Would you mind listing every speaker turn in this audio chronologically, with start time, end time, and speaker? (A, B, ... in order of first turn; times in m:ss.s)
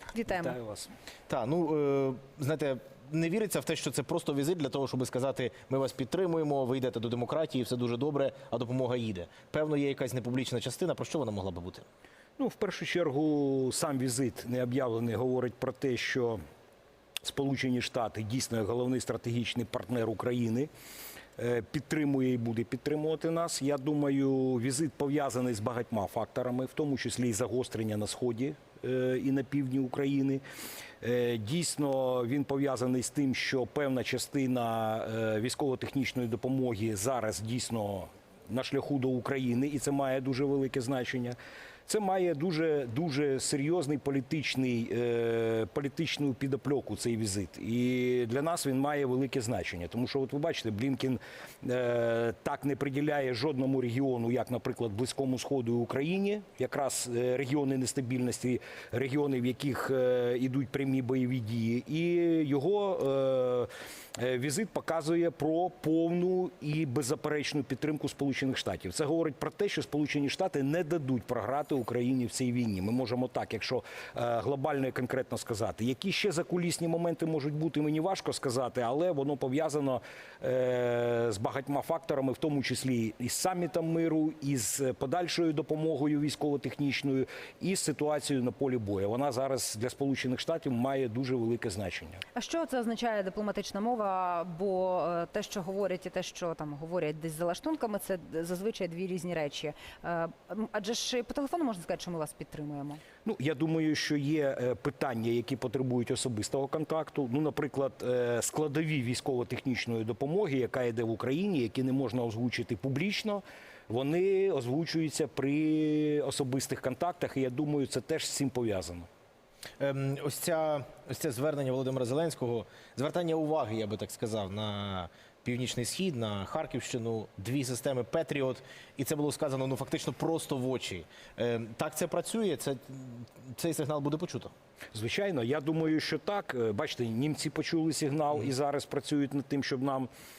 0:00.1-0:00.6 A
0:00.3-0:00.9 B
0:01.3-0:11.9 C
0:12.4-0:16.4 B
0:17.2-0:20.7 B
0:21.4-0:30.4 B
0:31.0-1:32.2 B
1:32.3-1:43.0 A
1:43.2-1:59.1 B
1:59.8-2:14.5 C
2:14.9-2:20.1 B